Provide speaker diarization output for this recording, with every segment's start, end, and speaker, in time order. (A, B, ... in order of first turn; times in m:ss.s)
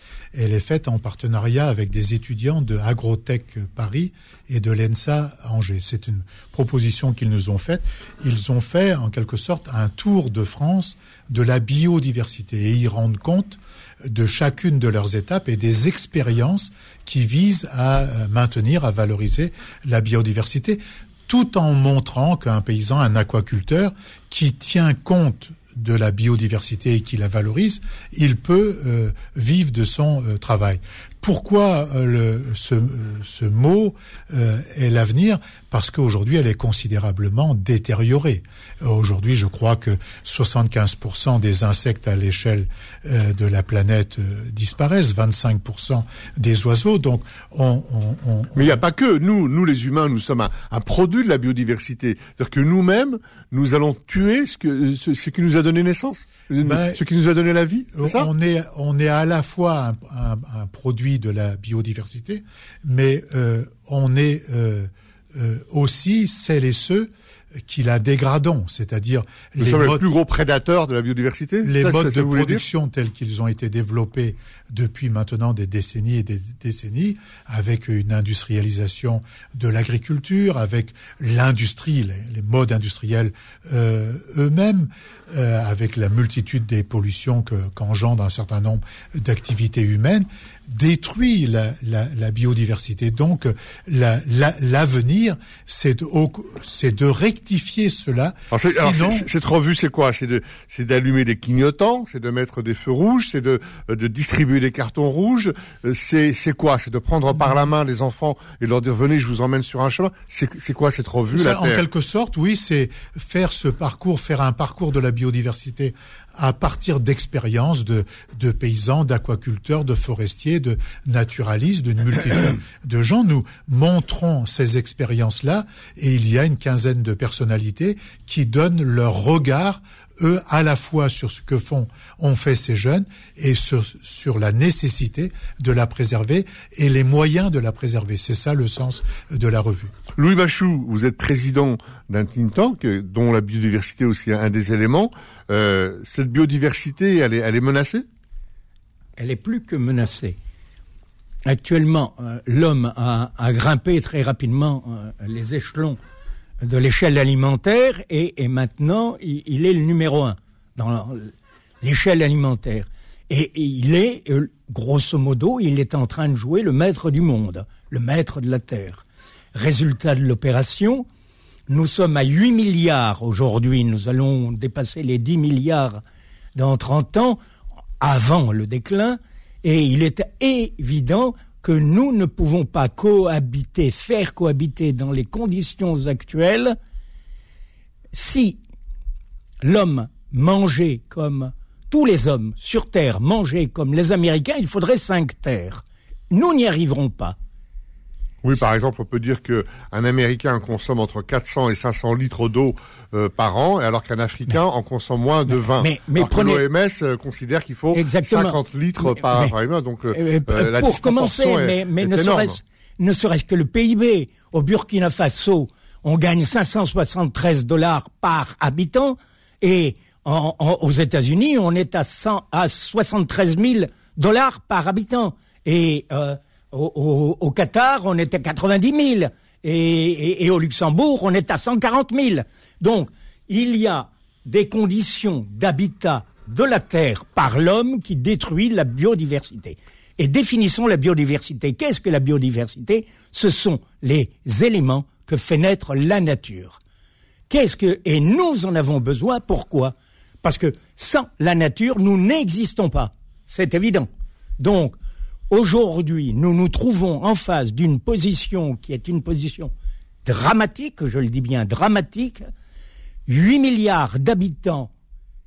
0:00.3-0:48.8 A
0:48.5-0:58.3 B
0:56.6-0:57.0 A
0:58.0-1:10.0 A
1:09.6-1:12.6 B
1:11.6-1:39.3 A
1:38.5-1:51.8 B
1:51.3-2:19.9 A
2:20.2-2:28.0 B
2:29.2-2:30.4 C
2:31.4-2:36.0 C
2:36.6-2:51.0 C
2:51.7-2:56.0 C
2:56.5-2:57.4 C
2:58.0-3:06.7 C
3:08.1-3:08.6 C
3:09.6-3:17.4 C
3:18.4-3:32.6 B
3:25.7-3:26.6 C
3:27.9-3:29.5 C
3:30.1-4:06.8 C
4:07.5-4:15.0 C
4:15.5-4:19.7 C
4:20.2-4:22.4 C
4:23.3-4:24.9 C